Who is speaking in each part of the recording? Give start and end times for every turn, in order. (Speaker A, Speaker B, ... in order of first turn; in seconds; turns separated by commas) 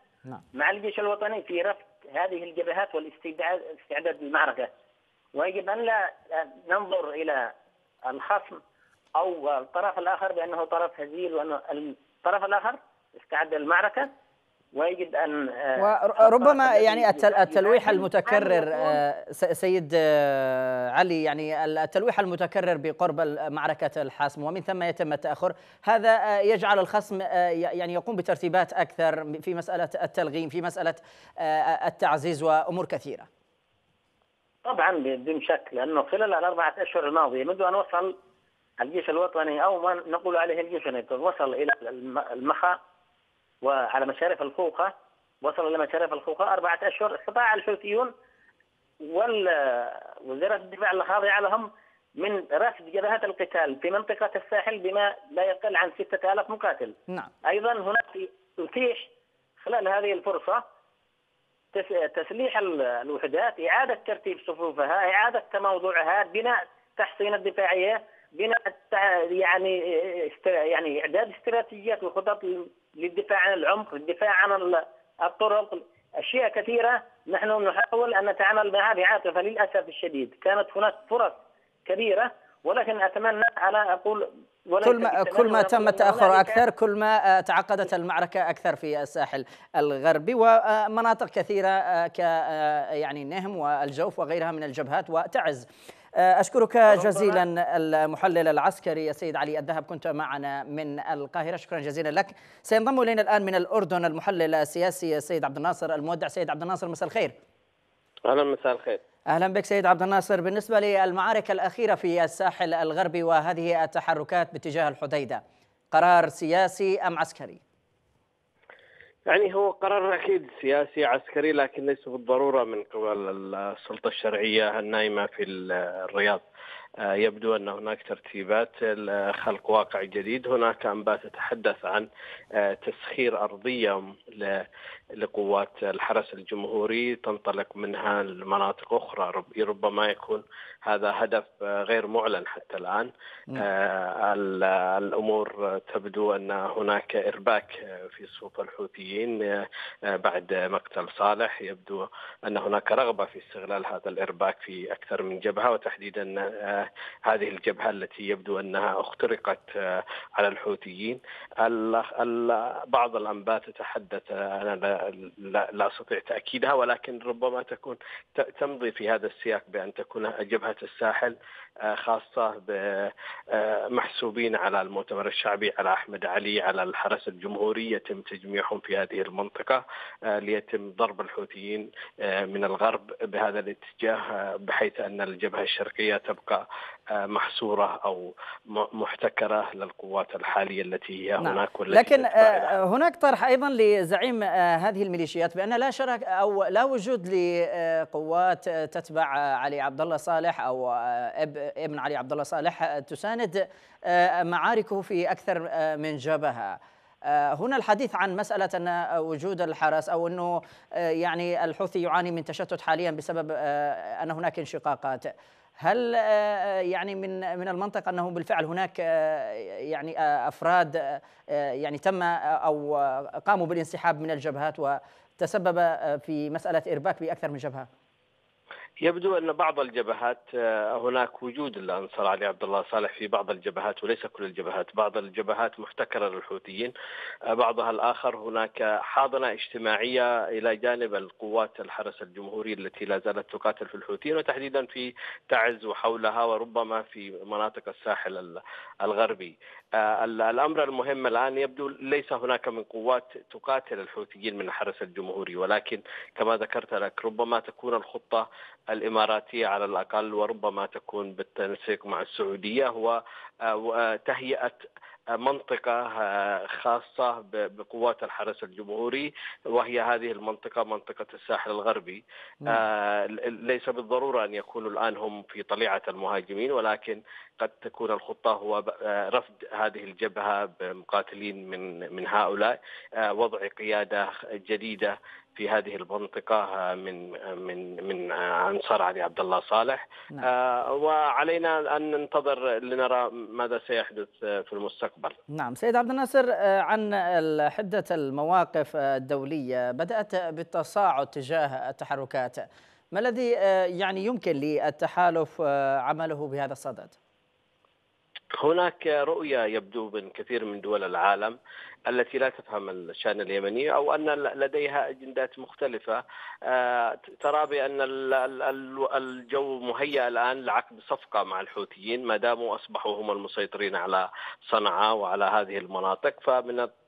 Speaker A: 0.5-4.7, Speaker A: 5.3-7.5, Speaker A: 8.1-8.6, Speaker A: 9.2-14.1, Speaker A: 14.8-19.0, Speaker B: 15.8-33.3, Speaker A: 34.6-38.1, Speaker A: 38.8-42.8, Speaker A: 43.6-48.1, Speaker A: 49.0-59.1, Speaker A: 59.6-60.6, Speaker A: 61.7-86.6, Speaker B: 84.8-107.3, Speaker A: 96.9-97.4, Speaker C: 108.2-109.0, Speaker B: 109.3-117.6, Speaker C: 119.3-126.4, Speaker C: 127.0-134.6, Speaker C: 135.2-186.6, Speaker C: 187.2-192.7, Speaker B: 191.4-227.9, Speaker C: 229.0-236.9, Speaker C: 237.5-264.9, Speaker C: 265.4-295.4, Speaker B: 295.5-307.1, Speaker C: 308.6-326.9